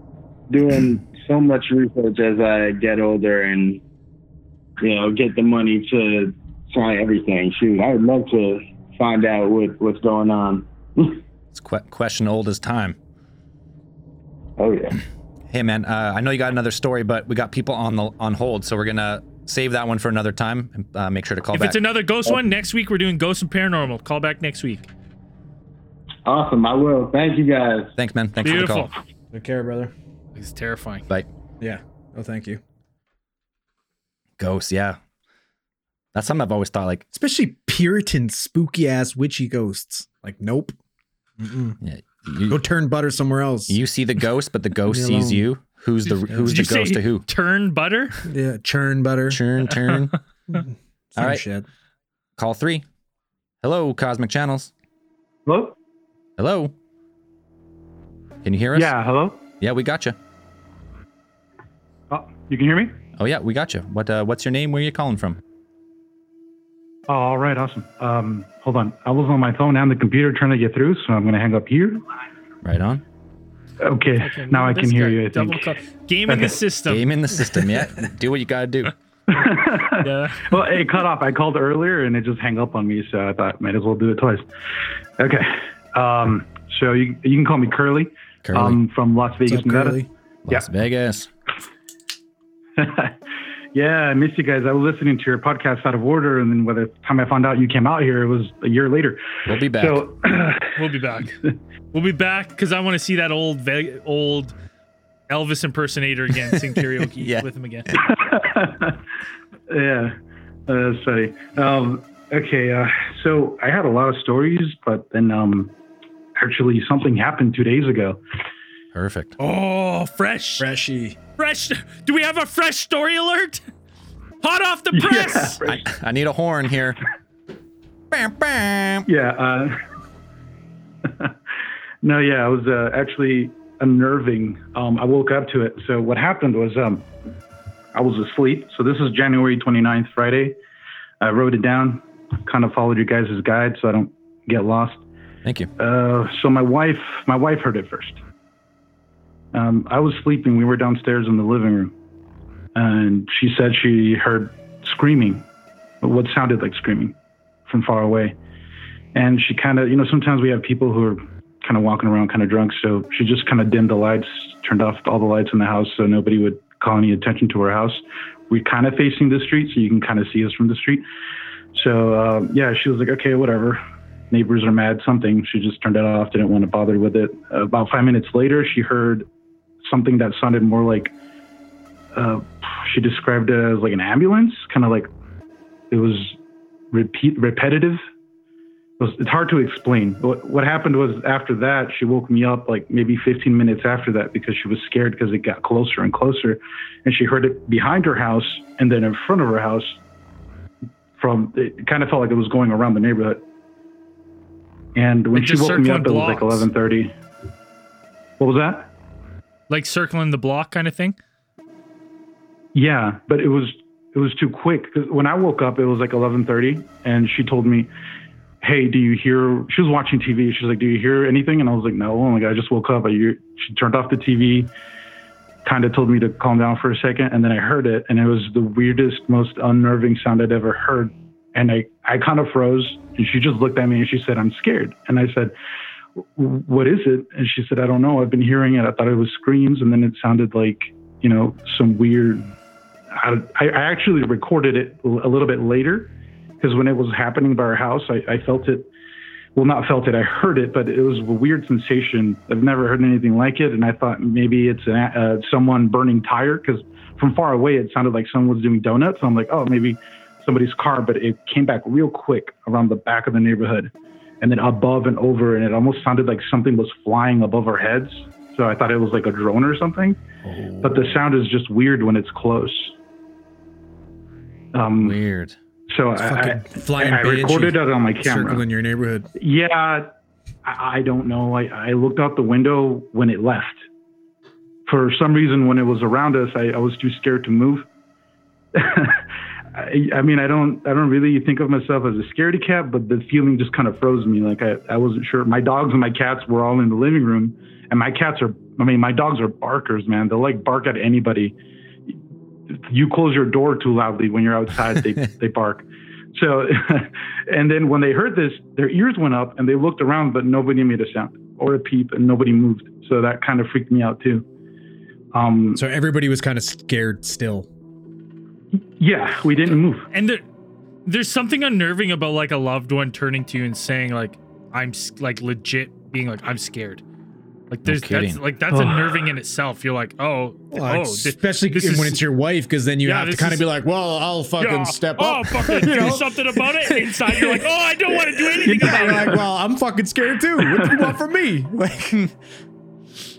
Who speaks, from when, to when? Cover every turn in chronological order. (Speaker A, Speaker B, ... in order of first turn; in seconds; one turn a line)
Speaker A: 0.5-3.8
Speaker A: 4.8-11.2
Speaker B: 11.5-13.0
Speaker A: 14.6-15.0
Speaker B: 15.5-21.8
Speaker C: 21.5-24.9
Speaker A: 26.3-27.9
Speaker B: 28.0-28.9
Speaker C: 28.4-28.9
Speaker D: 29.3-29.9
Speaker C: 30.4-31.1
Speaker D: 31.6-32.6
Speaker B: 34.4-35.0
Speaker B: 36.1-37.1
Speaker D: 37.1-40.8
Speaker D: 41.4-41.8
Speaker B: 41.8-42.6
Speaker D: 42.5-43.8
Speaker B: 43.7-47.3
Speaker D: 44.9-45.5
Speaker C: 46.1-48.3
Speaker D: 46.3-46.6
Speaker D: 48.3-49.4
Speaker B: 49.3-50.2
Speaker D: 50.5-51.6
Speaker B: 51.2-51.4
Speaker B: 52.4-52.9
Speaker B: 53.6-54.7
Speaker E: 55.5-55.8
Speaker B: 56.4-56.7
Speaker B: 58.4-58.9
Speaker E: 58.7-59.4
Speaker B: 59.6-60.2
Speaker E: 62.1-63.0
Speaker B: 63.2-65.4
Speaker E: 67.1-72.0
Speaker B: 72.6-73.0
Speaker E: 73.8-75.7
Speaker C: 74.2-77.1
Speaker E: 76.3-76.6
Speaker B: 76.9-78.9
Speaker E: 79.3-84.5
Speaker C: 80.0-80.6
Speaker E: 85.2-90.7
Speaker B: 88.4-88.8
Speaker D: 89.5-90.1
Speaker B: 90.5-91.3
Speaker E: 92.8-93.2
Speaker E: 93.7-100.8
Speaker B: 99.5-100.1
Speaker C: 100.8-101.4
Speaker C: 101.9-104.5
Speaker C: 105.3-107.9
Speaker E: 108.0-109.0
Speaker E: 109.7-110.2
Speaker E: 110.7-115.8
Speaker E: 116.4-118.2
Speaker B: 118.9-119.3
Speaker C: 119.4-120.7
Speaker D: 120.6-121.2
Speaker C: 121.4-123.7
Speaker C: 124.4-125.6
Speaker E: 124.9-125.9
Speaker B: 125.6-127.0
Speaker B: 128.1-129.1
Speaker E: 129.1-129.8
Speaker E: 131.1-131.3
Speaker E: 132.0-137.1
Speaker E: 137.9-140.6
Speaker E: 141.2-145.0
Speaker B: 145.4-145.7
Speaker E: 145.8-148.2
Speaker E: 149.5-151.9
Speaker E: 152.8-155.5
Speaker E: 156.0-157.2
Speaker E: 157.7-158.4
Speaker E: 159.2-171.1
Speaker E: 171.7-179.3
Speaker E: 179.8-181.1
Speaker E: 182.1-185.1
Speaker E: 185.9-186.4
Speaker E: 186.9-188.0
Speaker E: 189.0-200.0
Speaker E: 201.2-203.4
Speaker E: 204.9-207.1
Speaker C: 205.3-206.7
Speaker E: 208.4-208.9
Speaker C: 209.7-211.2
Speaker E: 212.7-217.9
Speaker E: 218.6-224.7
Speaker E: 225.7-235.5
Speaker E: 236.4-242.5
Speaker E: 243.1-248.9
Speaker E: 249.6-270.2
Speaker B: 270.4-271.2
Speaker E: 270.8-272.9
Speaker E: 274.7-275.2
Speaker B: 275.0-275.6
Speaker E: 275.9-278.6
Speaker D: 276.2-279.3
Speaker E: 279.4-283.9
Speaker E: 284.9-287.9
Speaker E: 288.8-301.6
Speaker E: 302.8-314.4
Speaker E: 315.3-315.8
Speaker D: 315.8-317.7
Speaker E: 319.0-320.1
Speaker C: 320.1-320.4
Speaker C: 321.1-327.0
Speaker C: 327.7-332.2
Speaker B: 327.9-328.4
Speaker E: 328.7-329.3
Speaker D: 330.7-336.3
Speaker C: 333.1-333.7
Speaker C: 334.6-339.4
Speaker D: 337.0-342.3
Speaker E: 338.7-339.5
Speaker E: 340.6-341.1